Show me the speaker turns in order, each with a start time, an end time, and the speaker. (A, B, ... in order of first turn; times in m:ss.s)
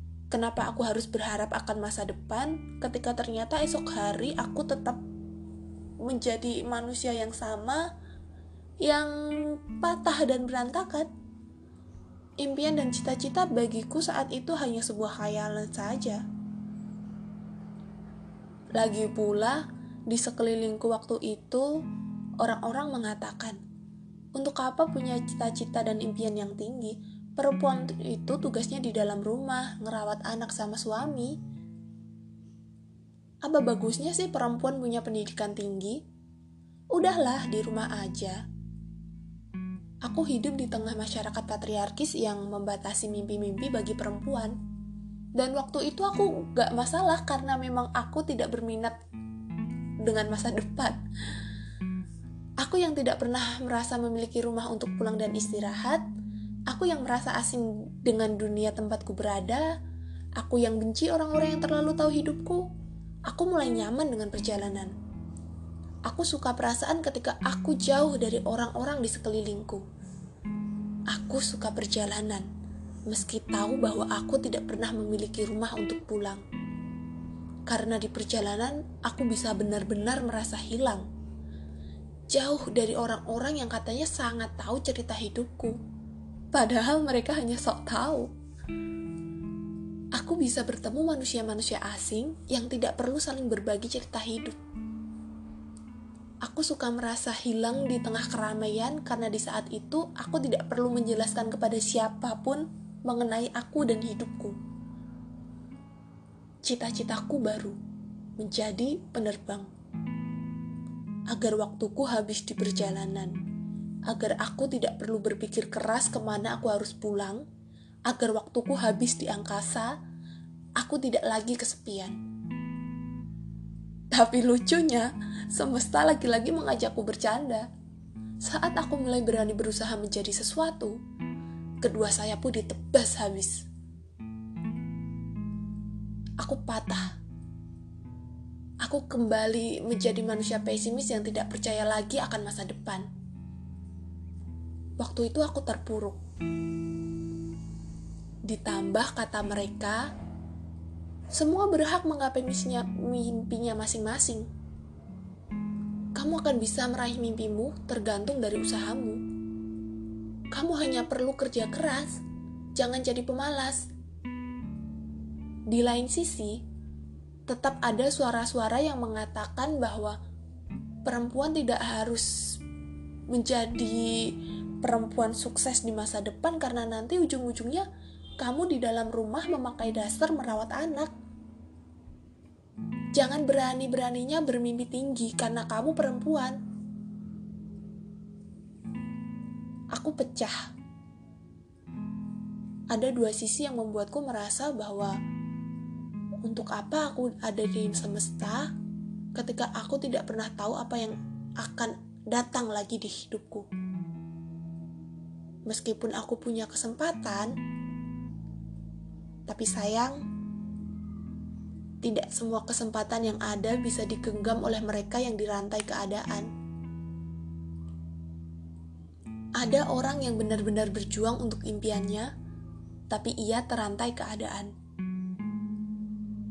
0:00.3-0:05.0 A
0:06.0-0:07.9 A
0:08.8-0:11.1 A
0:12.4-0:16.2 A
0:18.8-0:21.7 A
0:22.4-0:23.6 A
0:24.3-0:31.4 A
0:33.4-0:36.0 A
0:36.9-0:38.4 A
0:40.0-0:44.6 A
0:45.4-0:49.0 A
0:50.0-0:51.0 A
0:52.6-0:56.0 A
0:56.7-0:59.7 A
1:00.4-1:02.7 A
1:03.3-1:04.9 A
1:06.1-1:09.8 A
1:11.1-1:12.5 A
1:13.1-1:16.4 A
1:17.7-1:21.0 A
1:22.3-1:25.8 A
1:26.5-1:28.3 A
1:30.1-1:34.6 A
1:36.4-1:44.6 A
1:46.6-1:47.8 A
1:48.4-1:49.7 A
1:51.3-1:53.3 A
1:54.1-1:57.4 A
1:58.1-1:59.9 A
2:00.8-2:02.2 A
2:04.1-2:07.7 A
2:08.4-2:11.0 A
2:11.8-2:13.7 A
2:16.4-2:17.1 A
2:18.8-2:23.1 A
2:25.0-2:26.2 A
2:28.4-2:30.1 A
2:31.3-2:34.5 A
2:36.1-2:39.2 A
2:40.5-2:42.2 A
2:42.8-2:43.9 A
2:45.7-2:46.6 A
2:47.5-2:50.2 A
2:51.0-2:52.6 A
2:53.3-2:57.9 A
2:58.4-3:01.1 A
3:03.1-3:06.6 A
3:09.9-3:10.7 A
3:12.9-3:15.1 A
3:16.4-3:18.7 A
3:19.3-3:23.7 A
3:25.7-3:27.5 A
3:29.5-3:30.2 A
3:32.0-3:36.5 A
3:39.6-3:42.3 A
3:43.1-3:44.7 A